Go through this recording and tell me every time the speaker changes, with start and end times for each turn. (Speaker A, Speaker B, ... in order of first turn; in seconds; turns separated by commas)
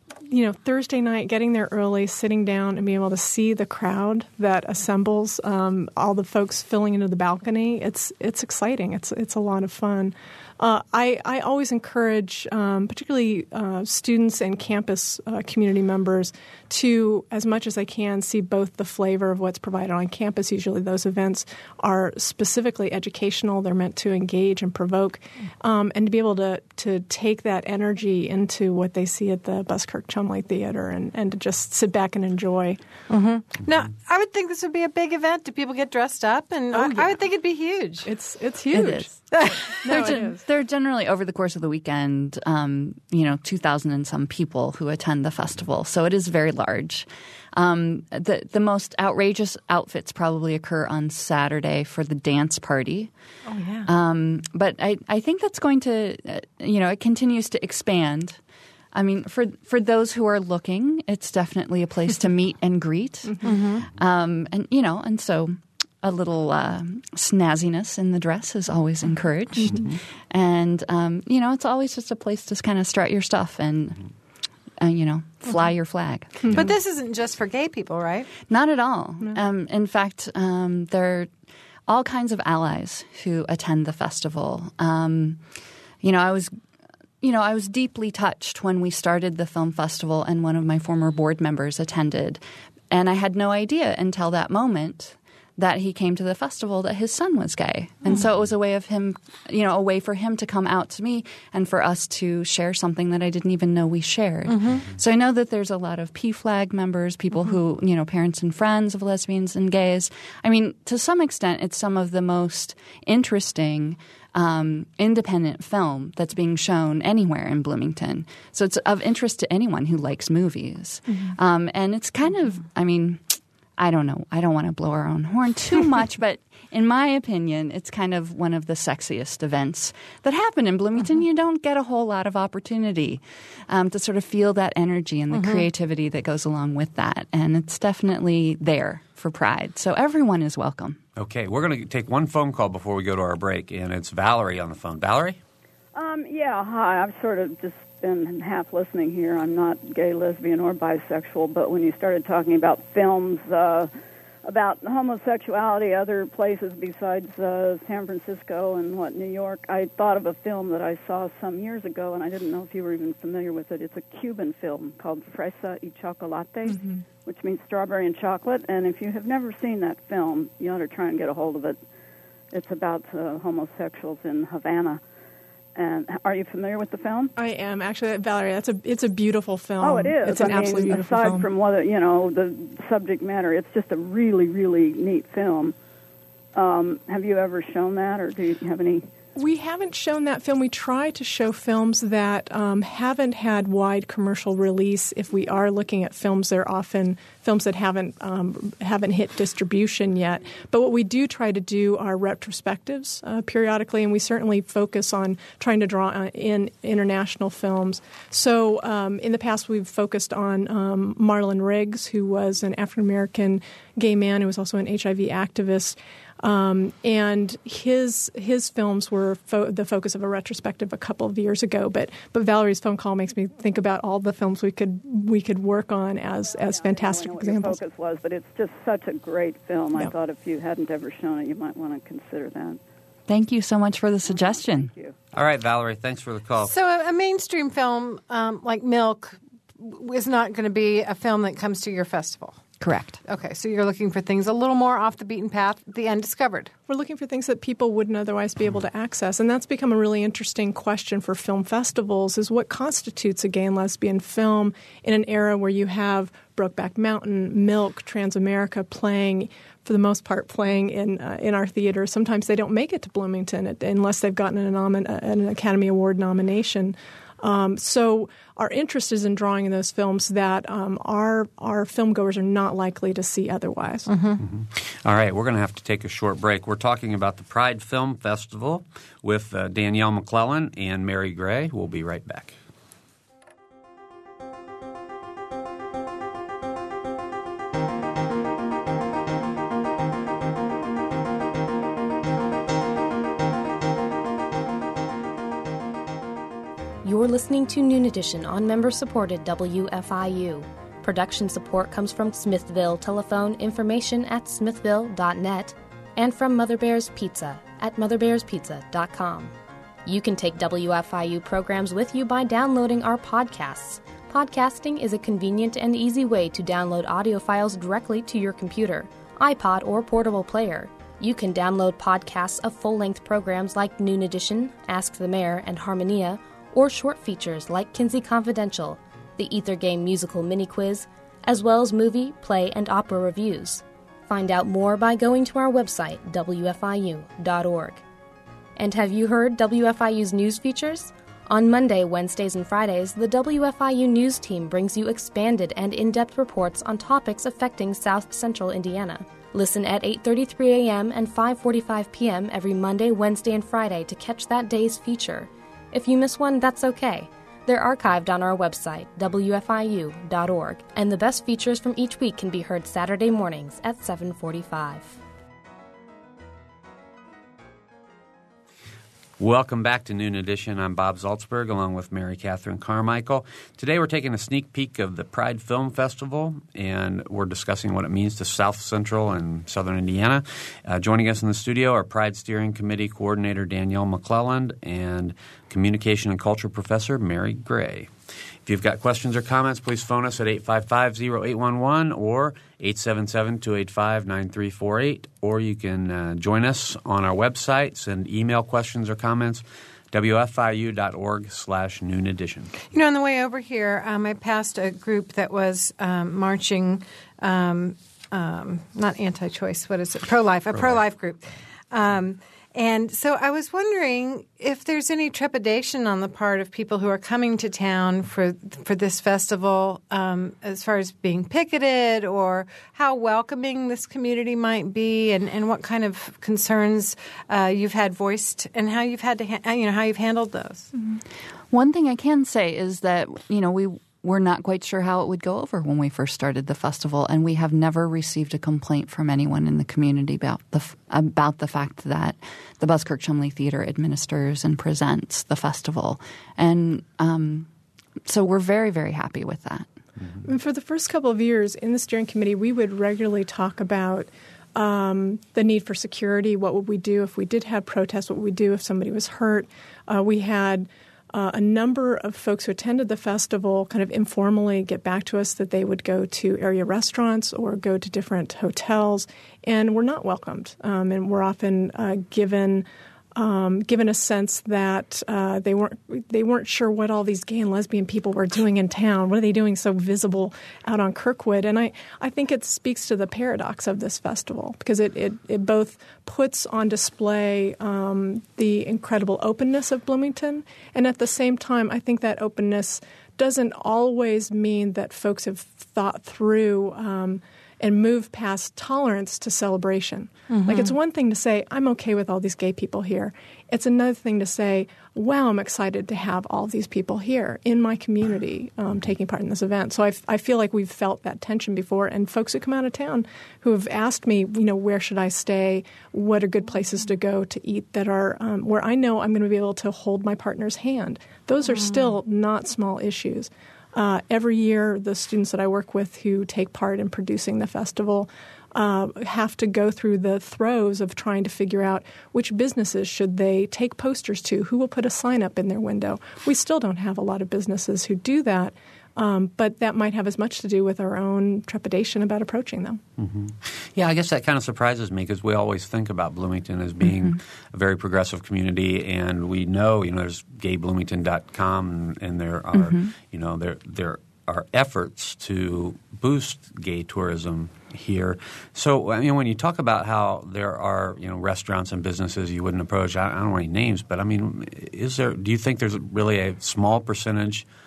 Speaker A: 0.3-32.8, Speaker B: 33.1-38.1, Speaker A: 36.7-37.2, Speaker A: 38.0-39.3, Speaker C: 38.7-39.1, Speaker A: 39.8-40.4, Speaker C: 39.8-53.1, Speaker B: 53.5-53.9, Speaker C: 53.9-58.4, Speaker C: 58.9-74.0, Speaker B: 63.4-63.9, Speaker C: 74.8-76.6, Speaker B: 76.5-78.3, Speaker C: 78.5-81.3, Speaker C: 81.9-85.4, Speaker C: 86.0-86.5, Speaker C: 87.2-141.0, Speaker B: 104.5-104.8, Speaker B: 135.3-135.7, Speaker D: 141.2-145.4, Speaker E: 145.9-153.9, Speaker E: 154.4-171.8, Speaker E: 172.5-175.0, Speaker E: 175.8-177.3, Speaker A: 177.4-181.5, Speaker E: 179.8-185.8, Speaker E: 186.6-189.1, Speaker A: 189.4-227.8, Speaker E: 226.5-232.8, Speaker C: 233.3-234.9, Speaker E: 234.3-235.2, Speaker D: 235.3-236.7, Speaker B: 236.6-242.6, Speaker C: 242.8-243.2, Speaker B: 243.3-246.7, Speaker A: 246.9-274.1, Speaker B: 274.1-274.4, Speaker D: 274.4-282.6, Speaker F: 297.0-309.5, Speaker F: 310.1-338.0, Speaker F: 338.8-365.2, Speaker D: 369.4-388.1, Speaker D: 388.7-402.8, Speaker B: 402.9-430.9, Speaker C: 431.7-447.7, Speaker C: 448.3-449.9, Speaker A: 450.4-543.0, Speaker B: 500.5-500.9, Speaker B: 521.7-522.2, Speaker D: 543.2-567.7, Speaker C: 547.0-547.4, Speaker C: 552.7-553.1